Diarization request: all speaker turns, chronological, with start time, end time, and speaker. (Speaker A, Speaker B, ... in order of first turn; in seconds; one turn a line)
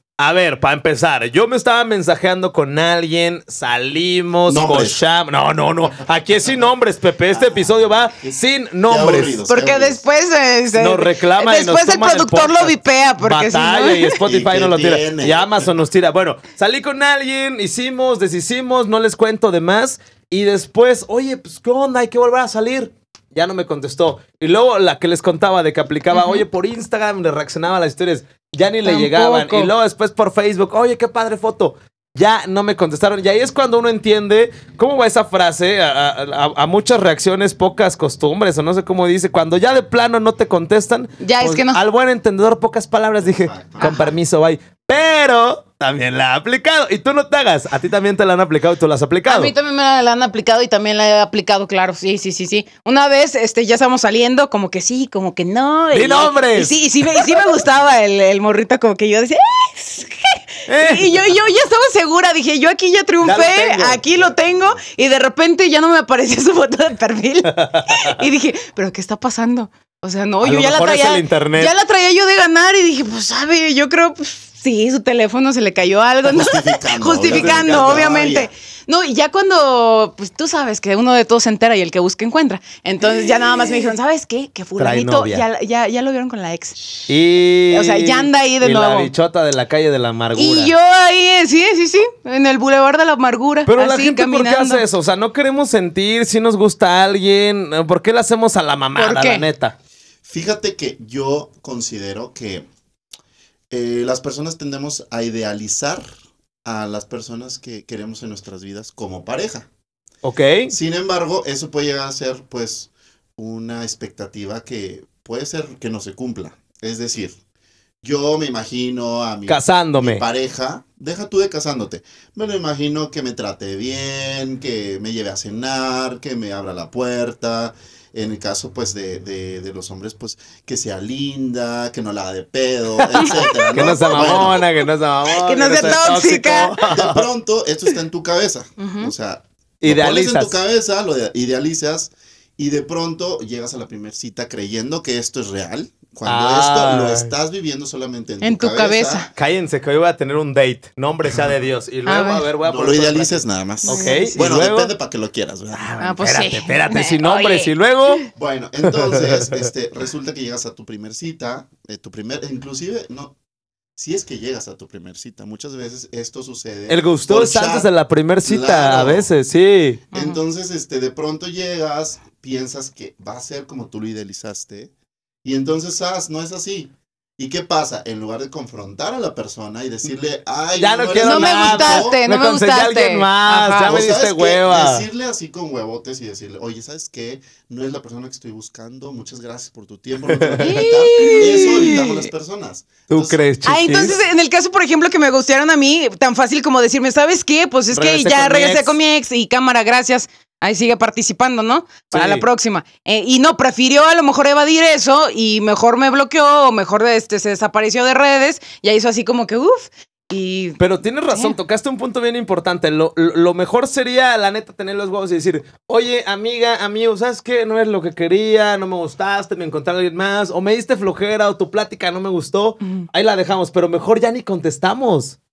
Speaker A: 0.2-9.4
Speaker B: 4.5-5.0
Speaker B: 6.4-6.7
Speaker B: 7.3-10.0
Speaker C: 9.5-14.2
Speaker A: 10.8-49.5
Speaker B: 14.2-15.7
Speaker C: 26.1-26.4
Speaker C: 28.8-29.7
Speaker C: 41.2-41.8
Speaker B: 43.2-43.9
Speaker C: 43.8-44.1
Speaker C: 49.3-87.1
Speaker A: 55.9-56.8
Speaker A: 60.7-61.2
Speaker A: 63.2-64.0
Speaker B: 64.0-64.8
Speaker A: 67.5-68.2
Speaker A: 70.4-71.7
Speaker B: 76.3-78.5
Speaker A: 77.2-78.1
Speaker A: 84.8-85.4
Speaker A: 87.1-90.7
Speaker C: 87.7-89.1
Speaker C: 90.3-94.8
Speaker A: 93.7-99.7
Speaker C: 99.0-99.5
Speaker B: 100.2-102.7
Speaker B: 103.7-106.0
Speaker B: 106.6-109.7
Speaker A: 110.2-110.7
Speaker B: 110.7-117.4
Speaker B: 118.0-134.6
Speaker A: 119.5-120.2
Speaker C: 133.1-134.6
Speaker A: 133.2-137.2
Speaker C: 135.3-136.8
Speaker B: 136.8-149.3
Speaker C: 138.8-139.1
Speaker A: 139.8-140.6
Speaker A: 146.2-147.3
Speaker C: 148.4-149.3
Speaker A: 149.3-154.9
Speaker B: 151.3-151.6
Speaker C: 152.1-152.5
Speaker B: 152.6-155.8
Speaker C: 153.8-154.3
Speaker A: 155.7-158.2
Speaker C: 156.0-158.1
Speaker B: 158.3-163.3
Speaker A: 158.9-159.5
Speaker B: 164.0-167.9
Speaker A: 166.9-170.0
Speaker B: 168.4-169.3
Speaker C: 170.1-170.4
Speaker B: 170.1-174.9
Speaker B: 175.4-182.2
Speaker A: 180.8-185.0
Speaker C: 181.2-184.0
Speaker B: 183.5-193.5
Speaker A: 190.3-192.2
Speaker C: 190.6-192.0
Speaker A: 193.1-194.2
Speaker C: 193.6-210.8
Speaker A: 197.9-199.0
Speaker A: 202.1-202.4
Speaker A: 210.8-225.4